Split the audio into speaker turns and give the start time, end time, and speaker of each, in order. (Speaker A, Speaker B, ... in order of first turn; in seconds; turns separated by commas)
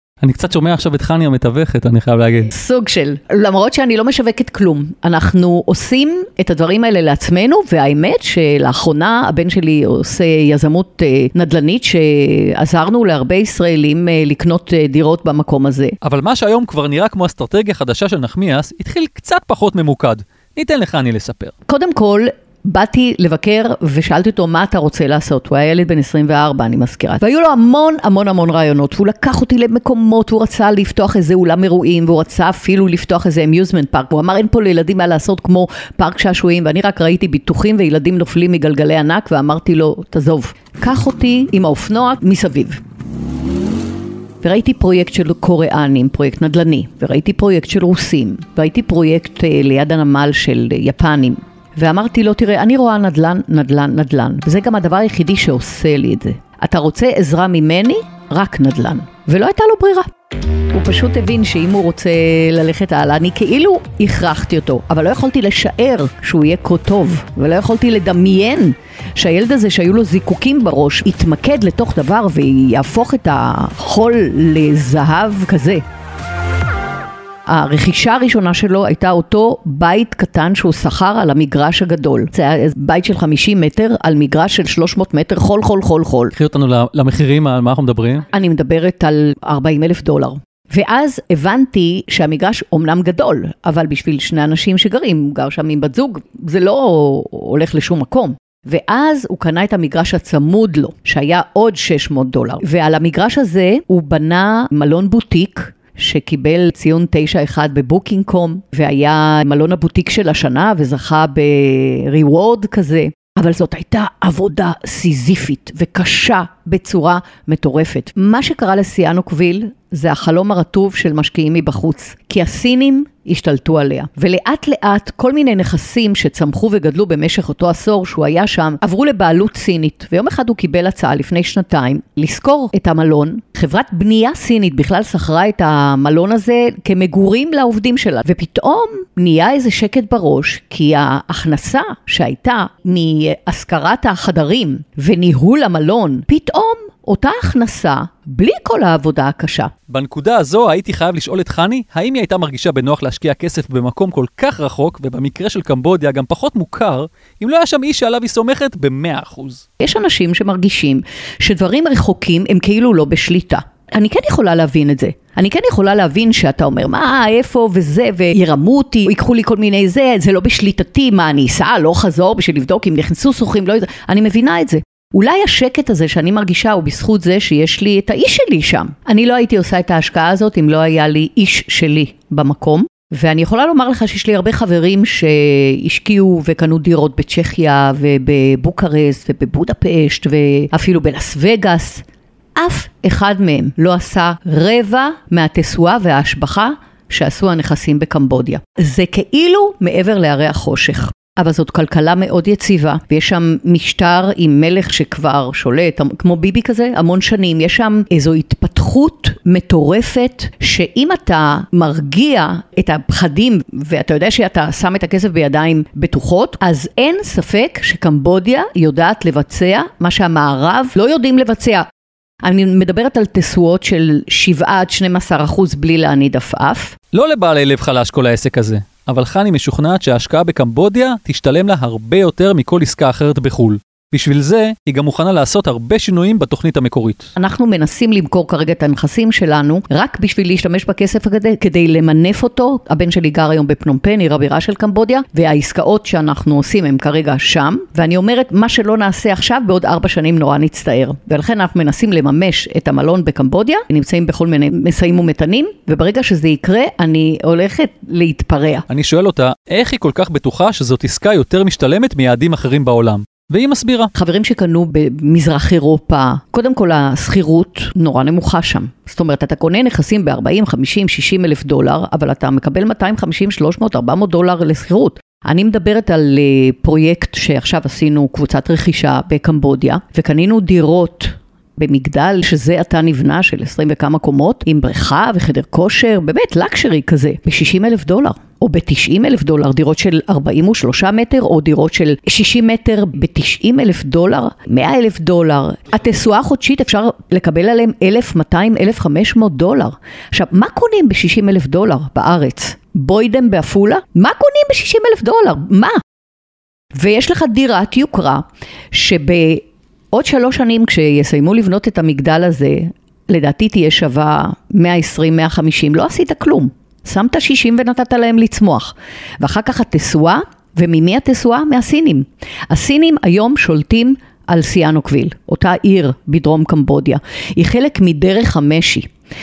Speaker A: 0.2-2.5, Speaker B: 2.5-16.0, Speaker A: 16.0-21.5, Speaker B: 21.7-42.8, Speaker B: 44.4-60.1, Speaker B: 60.7-75.8, Speaker B: 77.5-86.3, Speaker A: 86.3-88.2, Speaker B: 88.3-149.7, Speaker A: 149.9-159.6, Speaker B: 159.8-192.0, Speaker B: 192.6-221.9, Speaker B: 222.4-226.9, Speaker A: 227.1-237.3, Speaker B: 237.3-258.9, Speaker A: 258.9-264.1, Speaker B: 264.1-306.0, Speaker B: 306.9-329.1